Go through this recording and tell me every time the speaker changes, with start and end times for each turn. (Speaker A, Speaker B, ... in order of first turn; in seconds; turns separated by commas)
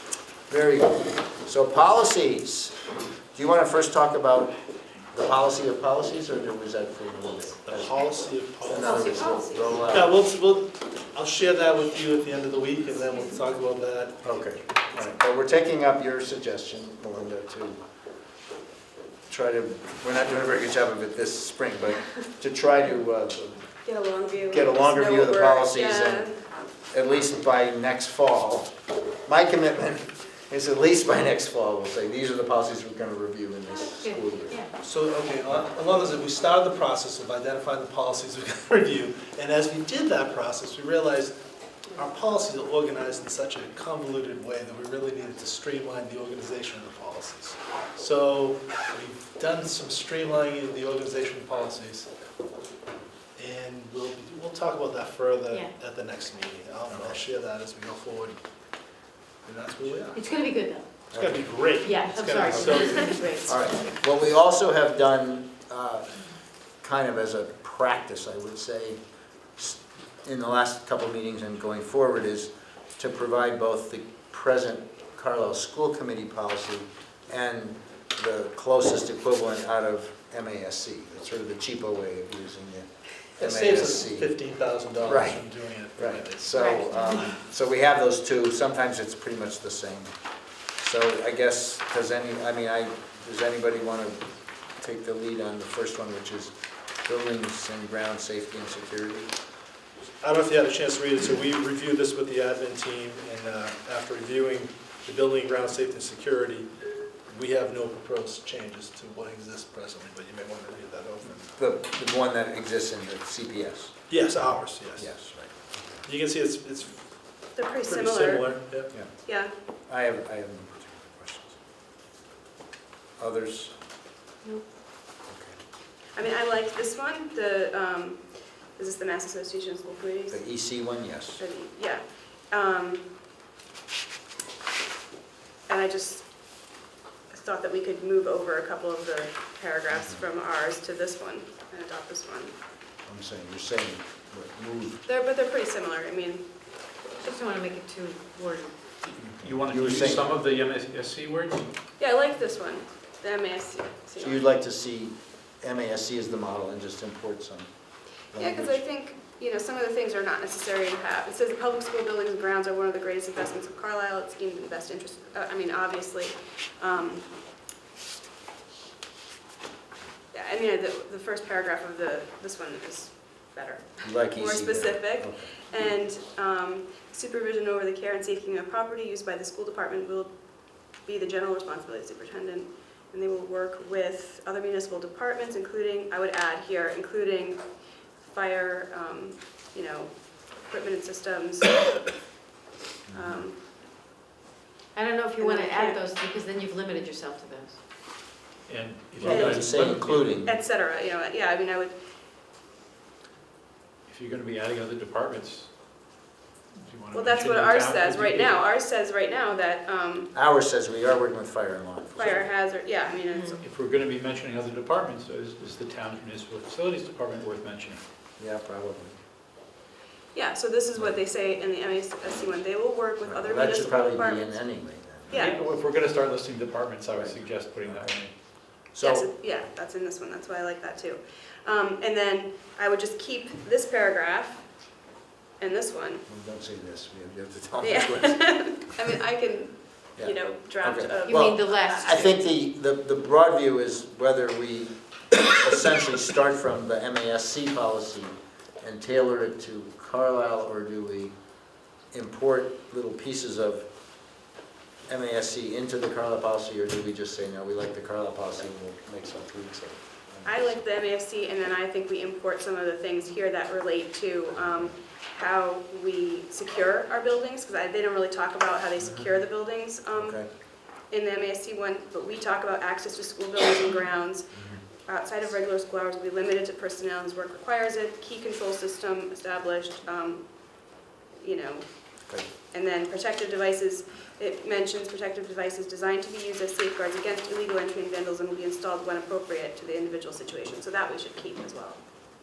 Speaker A: 0.5-2.8, Speaker A: 3.3-4.5, Speaker A: 5.1-7.9, Speaker B: 7.7-9.4, Speaker A: 8.6-10.2, Speaker C: 8.7-9.8, Speaker B: 9.9-14.2, Speaker A: 14.2-17.8, Speaker A: 19.3-23.6, Speaker D: 23.8-26.4, Speaker A: 24.5-26.3, Speaker A: 26.9-28.7, Speaker A: 29.2-34.6, Speaker C: 34.0-34.7, Speaker B: 34.8-41.4, Speaker B: 41.9-52.1, Speaker B: 53.4-58.4, Speaker A: 56.9-57.1, Speaker B: 59.4-60.2, Speaker C: 60.1-60.8, Speaker A: 61.1-61.4, Speaker B: 61.2-63.2, Speaker C: 61.8-63.7, Speaker A: 63.4-66.1, Speaker A: 66.8-69.0, Speaker A: 69.5-84.3, Speaker B: 83.4-86.5, Speaker A: 85.0-90.1, Speaker C: 86.5-87.3, Speaker A: 90.8-94.2, Speaker A: 94.8-99.3, Speaker B: 100.2-106.7, Speaker B: 107.3-111.4, Speaker A: 111.5-114.1, Speaker B: 114.1-115.2, Speaker A: 115.0-116.0, Speaker B: 116.0-117.0, Speaker D: 117.5-119.5, Speaker B: 117.8-118.9, Speaker A: 119.9-121.6, Speaker A: 123.2-123.7, Speaker A: 125.3-125.6, Speaker D: 126.1-130.4, Speaker A: 130.3-131.4, Speaker D: 131.4-133.1, Speaker D: 135.7-136.3, Speaker D: 137.3-142.5, Speaker A: 139.9-140.2, Speaker A: 143.0-145.0, Speaker D: 145.0-146.4, Speaker C: 147.2-149.1, Speaker A: 149.2-150.3, Speaker E: 149.4-151.7, Speaker D: 152.0-154.4, Speaker A: 154.2-157.7, Speaker A: 158.3-158.8, Speaker D: 158.3-167.3, Speaker D: 170.3-180.3, Speaker A: 174.0-175.5, Speaker D: 180.9-187.6, Speaker D: 188.2-191.8, Speaker A: 193.1-193.4, Speaker D: 193.1-193.6, Speaker C: 194.9-197.8, Speaker D: 195.4-196.0, Speaker E: 198.7-200.3, Speaker A: 199.2-200.5, Speaker D: 199.2-199.6, Speaker D: 200.4-201.9, Speaker E: 204.1-205.7, Speaker E: 206.8-208.5, Speaker D: 207.1-210.3, Speaker A: 210.3-212.4, Speaker D: 212.2-213.6, Speaker E: 213.6-218.0, Speaker A: 218.4-219.2, Speaker D: 220.3-224.7, Speaker A: 223.2-225.6, Speaker D: 225.3-225.6, Speaker E: 225.3-228.3, Speaker A: 227.1-228.1, Speaker A: 228.9-229.3, Speaker D: 229.0-234.7, Speaker D: 235.6-236.2, Speaker A: 236.3-238.4, Speaker D: 237.8-242.2, Speaker A: 240.2-251.3, Speaker C: 241.2-242.1, Speaker A: 252.1-253.9, Speaker A: 255.1-260.6, Speaker D: 260.4-270.4, Speaker A: 264.6-264.9, Speaker A: 269.0-269.3, Speaker A: 270.1-270.5, Speaker D: 271.0-292.0, Speaker A: 274.5-274.8